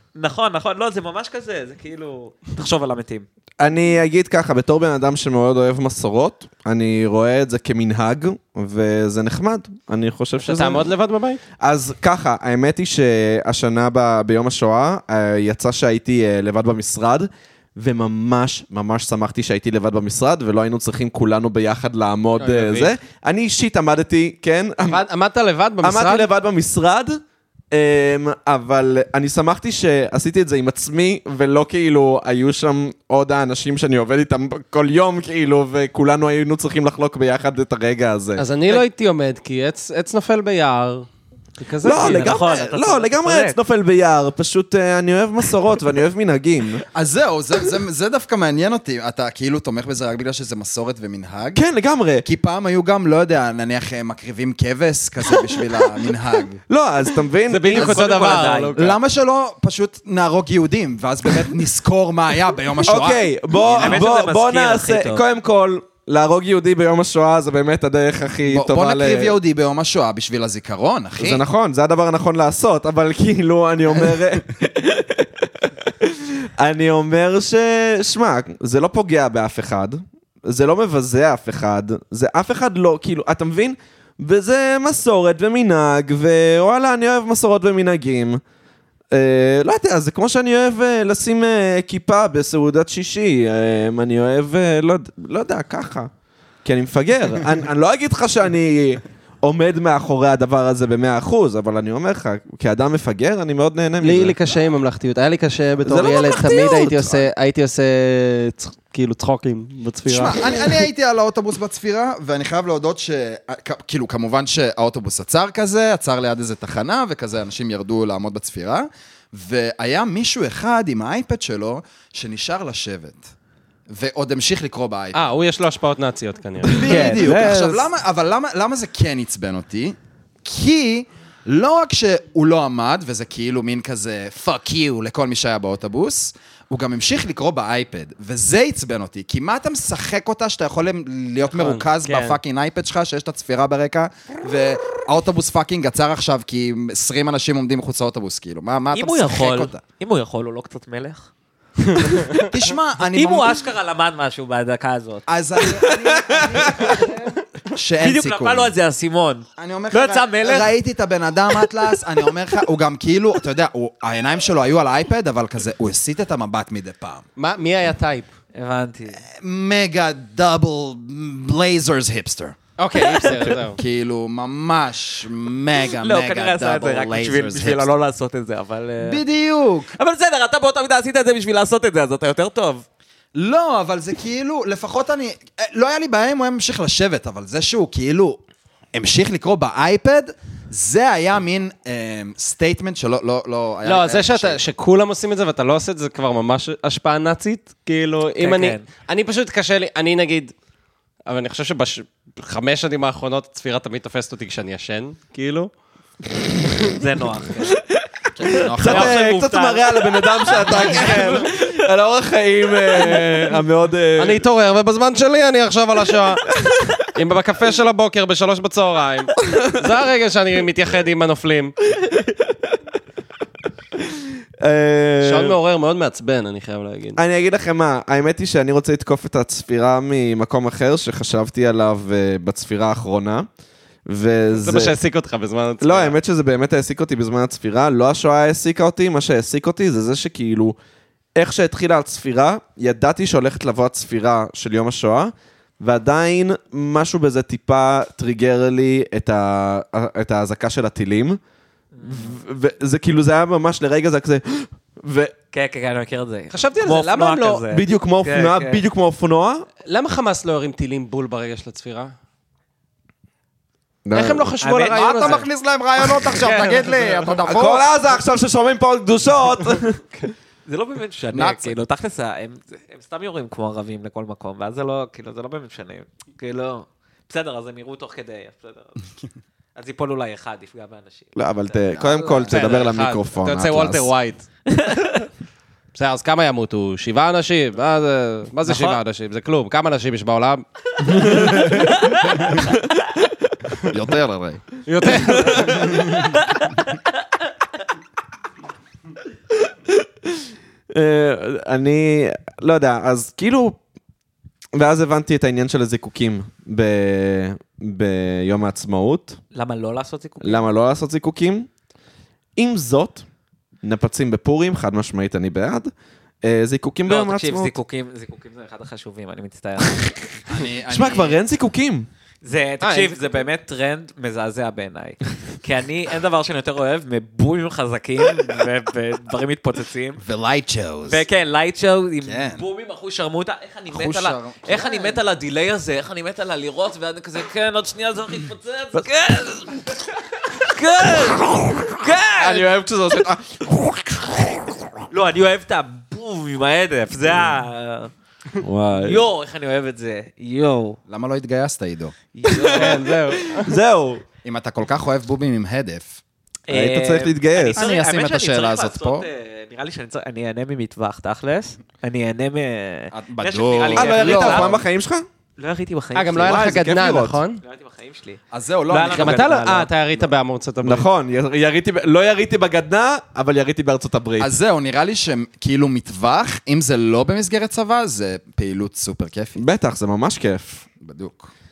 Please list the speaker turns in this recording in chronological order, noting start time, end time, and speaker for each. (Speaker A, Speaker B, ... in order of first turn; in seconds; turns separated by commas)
Speaker A: 0.2-3.3, Speaker B: 3.6-10.9, Speaker C: 10.4-11.4, Speaker B: 11.6-25.0, Speaker C: 22.4-22.9, Speaker C: 24.9-26.3, Speaker B: 25.8-27.2, Speaker B: 27.7-38.5, Speaker C: 38.4-41.1, Speaker C: 41.6-42.4, Speaker B: 41.8-46.8, Speaker A: 41.9-43.6, Speaker D: 46.9-51.6, Speaker B: 51.5-52.2, Speaker D: 52.2-56.6, Speaker B: 56.7-58.1, Speaker C: 57.5-59.0, Speaker A: 57.8-58.8, Speaker D: 57.9-64.0, Speaker B: 62.9-69.4, Speaker A: 63.8-65.2, Speaker D: 68.5-71.4, Speaker B: 71.2-88.4, Speaker B: 89.1-96.1, Speaker B: 96.6-104.4, Speaker C: 104.0-110.8, Speaker B: 105.8-107.3, Speaker D: 110.1-123.3, Speaker D: 123.9-125.3, Speaker C: 125.1-127.8, Speaker D: 126.7-149.8, Speaker A: 126.8-127.6, Speaker C: 141.4-142.4, Speaker A: 148.9-151.3, Speaker D: 152.2-153.6, Speaker A: 153.1-156.0, Speaker D: 155.3-158.7, Speaker A: 156.7-157.1, Speaker A: 158.0-160.7, Speaker D: 159.6-167.3, Speaker C: 167.4-168.3, Speaker A: 168.6-169.2, Speaker D: 169.2-172.6, Speaker C: 172.8-173.8, Speaker A: 173.0-173.4, Speaker D: 173.4-177.9, Speaker A: 176.0-179.2, Speaker D: 179.0-179.9, Speaker A: 179.9-182.8, Speaker D: 183.3-188.4, Speaker D: 188.9-194.6, Speaker C: 193.8-200.5, Speaker A: 198.4-198.8, Speaker C: 201.3-205.7, Speaker A: 207.0-207.8, Speaker D: 208.3-209.2, Speaker B: 208.7-214.4, Speaker A: 208.8-211.5, Speaker C: 214.2-216.5, Speaker C: 217.1-221.7, Speaker B: 224.6-225.6, Speaker C: 225.2-227.2, Speaker B: 227.2-233.5, Speaker B: 234.1-234.9, Speaker C: 234.5-236.2, Speaker B: 235.8-240.8, Speaker B: 241.4-251.4, Speaker A: 251.9-252.4, Speaker B: 252.0-255.3, Speaker A: 255.5-258.8, Speaker C: 256.5-257.6, Speaker B: 257.7-259.7, Speaker C: 259.9-262.1, Speaker B: 264.1-264.5, Speaker C: 264.1-265.5, Speaker A: 264.6-265.5, Speaker D: 264.8-267.9, Speaker C: 266.2-267.4, Speaker B: 267.4-270.0, Speaker A: 270.7-279.0, Speaker D: 271.3-271.8, Speaker A: 279.8-282.5, Speaker B: 281.4-284.1, Speaker D: 281.9-282.5, Speaker C: 282.5-284.5, Speaker A: 284.7-285.2, Speaker C: 285.9-290.6, Speaker A: 288.6-289.0, Speaker A: 291.2-292.2, Speaker C: 291.3-291.5, Speaker D: 293.9-294.7, Speaker C: 294.9-296.1, Speaker A: 296.2-296.7, Speaker B: 300.9-303.8, Speaker B: 304.8-309.4, Speaker A: 309.5-310.7, Speaker B: 310.4-311.7, Speaker B: 312.6-313.2, Speaker B: 313.8-315.9, Speaker B: 316.4-317.8, Speaker A: 317.1-320.1, Speaker D: 320.5-321.4, Speaker B: 320.9-322.1, Speaker A: 322.4-330.2, Speaker C: 322.8-323.4, Speaker D: 330.2-331.2, Speaker A: 331.1-340.0, Speaker D: 332.2-332.6, Speaker D: 333.9-335.2, Speaker A: 340.5-342.7, Speaker B: 342.4-344.9, Speaker A: 345.1-348.1, Speaker B: 348.6-349.3, Speaker A: 349.0-351.0, Speaker D: 351.1-352.1, Speaker A: 352.4-353.0, Speaker B: 352.4-353.0, Speaker C: 352.6-353.8, Speaker B: 353.5-354.2, Speaker D: 354.4-356.2, Speaker A: 356.7-364.8, Speaker B: 356.7-357.8, Speaker D: 357.8-359.3, Speaker D: 363.1-364.8, Speaker B: 364.0-365.3, Speaker A: 365.6-366.7, Speaker C: 366.1-367.6, Speaker B: 366.4-367.4, Speaker A: 367.6-369.9, Speaker D: 368.5-369.6, Speaker C: 369.0-371.1, Speaker B: 370.8-374.5, Speaker D: 374.4-379.6, Speaker B: 379.6-380.8, Speaker D: 381.0-381.5